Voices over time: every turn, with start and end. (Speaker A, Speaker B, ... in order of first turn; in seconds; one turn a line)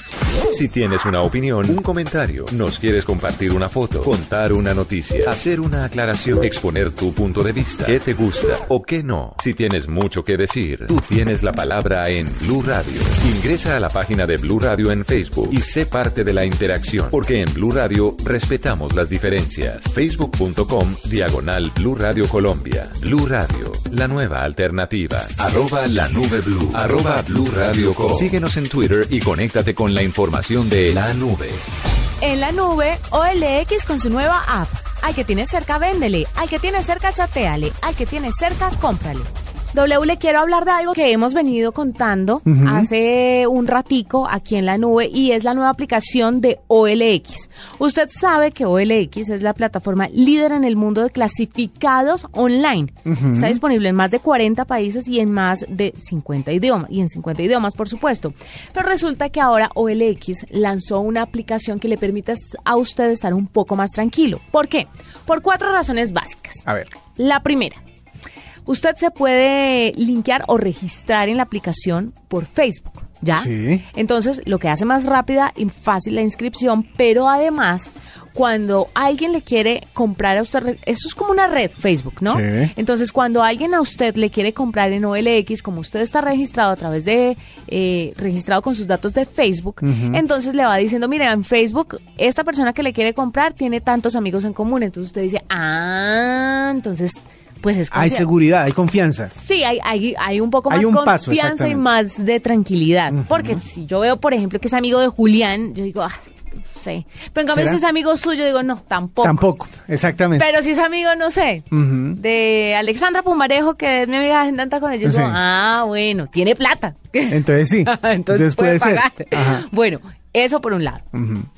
Speaker A: 0.5-31.6
Speaker B: 32.2-67.8
Speaker C: 42.5-42.9
Speaker C: 53.1-53.6
Speaker B: 68.7-98.3
Speaker C: 73.3-73.8
Speaker C: 82.3-82.7
Speaker C: 89.8-90.2
Speaker C: 97.9-99.3
Speaker B: 99.3-109.4
Speaker C: 100.7-101.9
Speaker C: 103.1-103.6
Speaker C: 107.5-107.8
Speaker C: 109.2-110.5
Speaker B: 110.4-121.0
Speaker C: 111.7-112.2
Speaker C: 115.0-115.4
Speaker C: 117.3-119.7
Speaker C: 121.1-121.5